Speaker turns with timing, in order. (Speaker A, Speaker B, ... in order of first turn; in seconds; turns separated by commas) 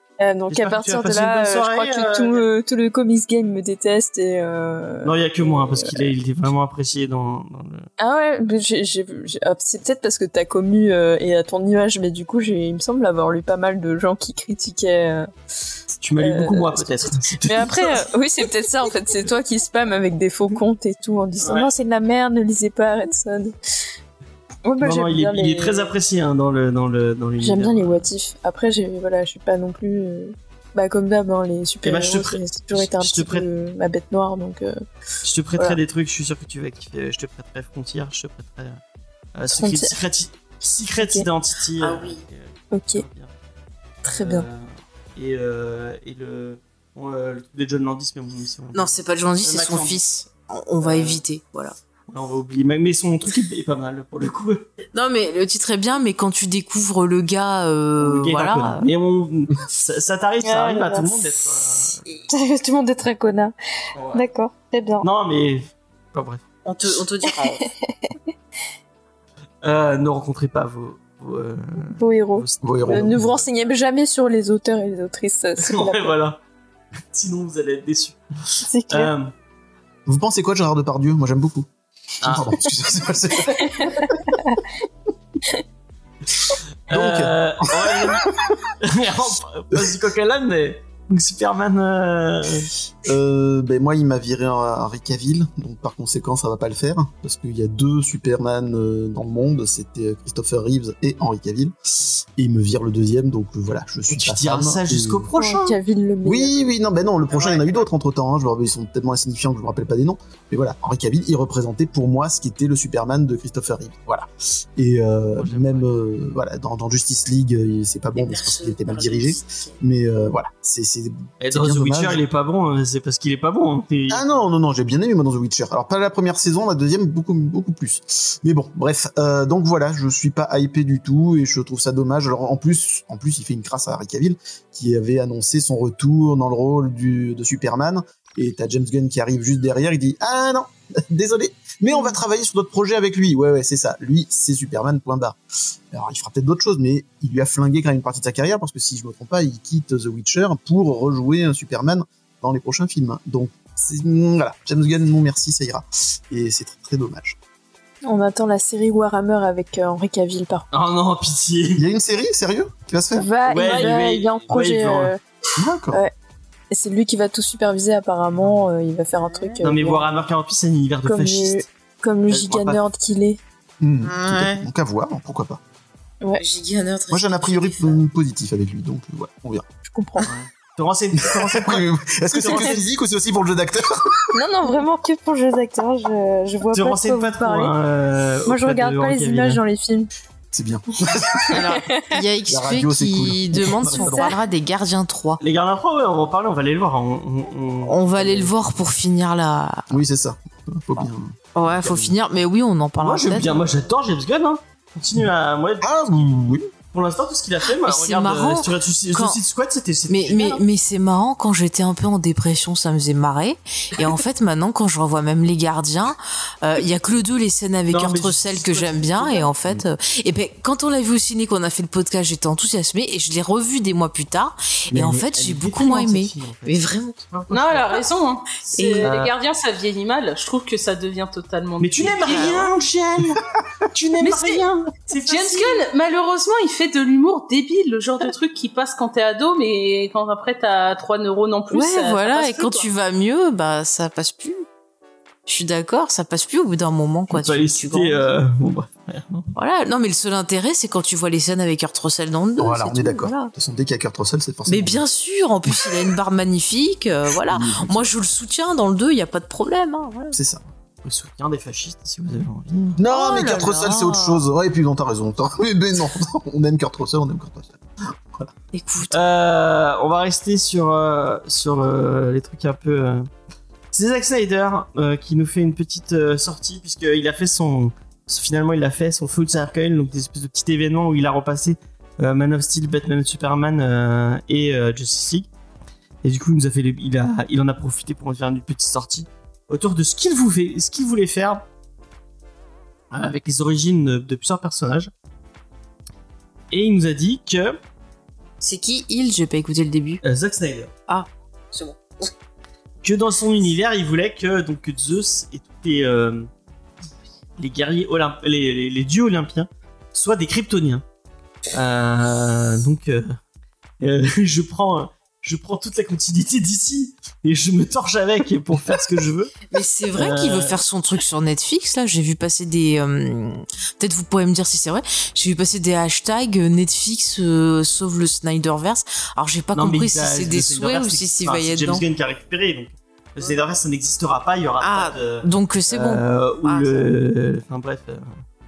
Speaker A: 0.2-6.1, Speaker B: 0.5-2.5, Speaker B: 5.0-7.9, Speaker A: 8.0-15.3, Speaker B: 16.0-18.1, Speaker A: 16.2-23.6, Speaker B: 21.4-21.7, Speaker A: 24.6-25.9, Speaker B: 24.8-28.1, Speaker A: 27.4-34.8, Speaker B: 31.8-33.5, Speaker B: 35.2-38.8, Speaker B: 39.3-43.3, Speaker A: 39.5-39.9, Speaker A: 41.0-41.2, Speaker C: 41.8-42.2, Speaker A: 42.7-43.0, Speaker A: 44.0-44.4, Speaker B: 44.0-50.0, Speaker C: 48.7-51.7, Speaker B: 50.8-51.2, Speaker B: 52.1-54.7, Speaker C: 54.9-58.9, Speaker B: 58.0-62.0, Speaker A: 60.4-61.2, Speaker A: 62.3-63.5, Speaker B: 63.9-64.2, Speaker A: 64.1-65.1, Speaker B: 65.0-66.5, Speaker C: 66.6-67.6, Speaker A: 67.2-68.2, Speaker B: 69.6-73.2, Speaker A: 71.9-76.2, Speaker D: 72.6-73.4, Speaker B: 75.6-76.4, Speaker B: 77.1-79.3, Speaker A: 78.7-79.1, Speaker D: 80.1-81.7, Speaker D: 82.2-84.4, Speaker B: 82.2-82.5, Speaker A: 83.5-84.6, Speaker B: 86.9-88.3, Speaker D: 86.9-88.5, Speaker B: 88.8-92.7, Speaker D: 93.0-105.3, Speaker B: 104.1-105.8, Speaker A: 105.3-106.7, Speaker D: 106.2-122.2, Speaker B: 107.3-107.8, Speaker B: 115.3-115.9, Speaker C: 118.1-119.8, Speaker B: 121.4-124.5, Speaker D: 124.1-145.4, Speaker D: 145.9-157.4, Speaker A: 158.0-160.7, Speaker B: 160.7-161.8, Speaker D: 161.7-163.3, Speaker A: 163.1-165.2, Speaker B: 163.4-165.1, Speaker D: 165.6-166.0, Speaker A: 166.7-170.1, Speaker B: 168.3-168.6, Speaker C: 169.2-169.6, Speaker B: 169.6-171.7, Speaker A: 171.0-173.4, Speaker B: 172.3-172.8, Speaker D: 173.8-175.6, Speaker C: 174.0-174.6, Speaker C: 176.4-178.0, Speaker D: 177.1-179.6, Speaker A: 179.9-180.3, Speaker B: 180.2-182.8, Speaker D: 181.2-184.3, Speaker A: 182.4-182.8, Speaker A: 184.3-187.7, Speaker B: 186.7-189.6, Speaker A: 188.5-190.1, Speaker D: 190.5-191.7, Speaker C: 191.5-195.4, Speaker A: 191.6-192.1, Speaker D: 192.5-194.3, Speaker A: 193.8-194.4, Speaker B: 195.4-198.5, Speaker C: 197.8-199.9, Speaker D: 199.9-202.1, Speaker C: 201.5-203.6, Speaker B: 203.0-210.6, Speaker D: 205.8-206.7, Speaker C: 207.8-209.4, Speaker C: 210.1-227.2, Speaker B: 217.9-219.7, Speaker D: 224.9-225.2, Speaker B: 225.1-228.0, Speaker E: 227.5-232.7, Speaker C: 228.7-229.1, Speaker B: 229.0-229.3, Speaker B: 231.8-235.8, Speaker C: 232.2-232.7, Speaker E: 234.2-234.6, Speaker E: 235.2-242.9, Speaker C: 241.7-244.6, Speaker C: 245.4-248.2, Speaker B: 247.3-249.5, Speaker C: 249.5-253.5, Speaker D: 252.6-255.0, Speaker C: 254.7-260.4, Speaker D: 255.7-256.0, Speaker D: 257.4-258.1, Speaker D: 260.3-260.6, Speaker B: 261.0-263.0, Speaker D: 263.0-268.1, Speaker C: 263.1-264.4, Speaker C: 268.7-269.2, Speaker B: 269.1-273.3, Speaker B: 273.9-285.5, Speaker B: 286.2-291.6, Speaker B: 293.1-295.1, Speaker B: 296.7-297.8, Speaker C: 298.6-300.2, Speaker B: 300.2-300.9, Speaker C: 301.1-302.3, Speaker B: 303.0-306.5, Speaker B: 307.6-311.0, Speaker B: 311.7-313.4, Speaker B: 314.0-320.8, Speaker C: 319.7-332.0, Speaker B: 329.7-338.4, Speaker C: 334.8-337.0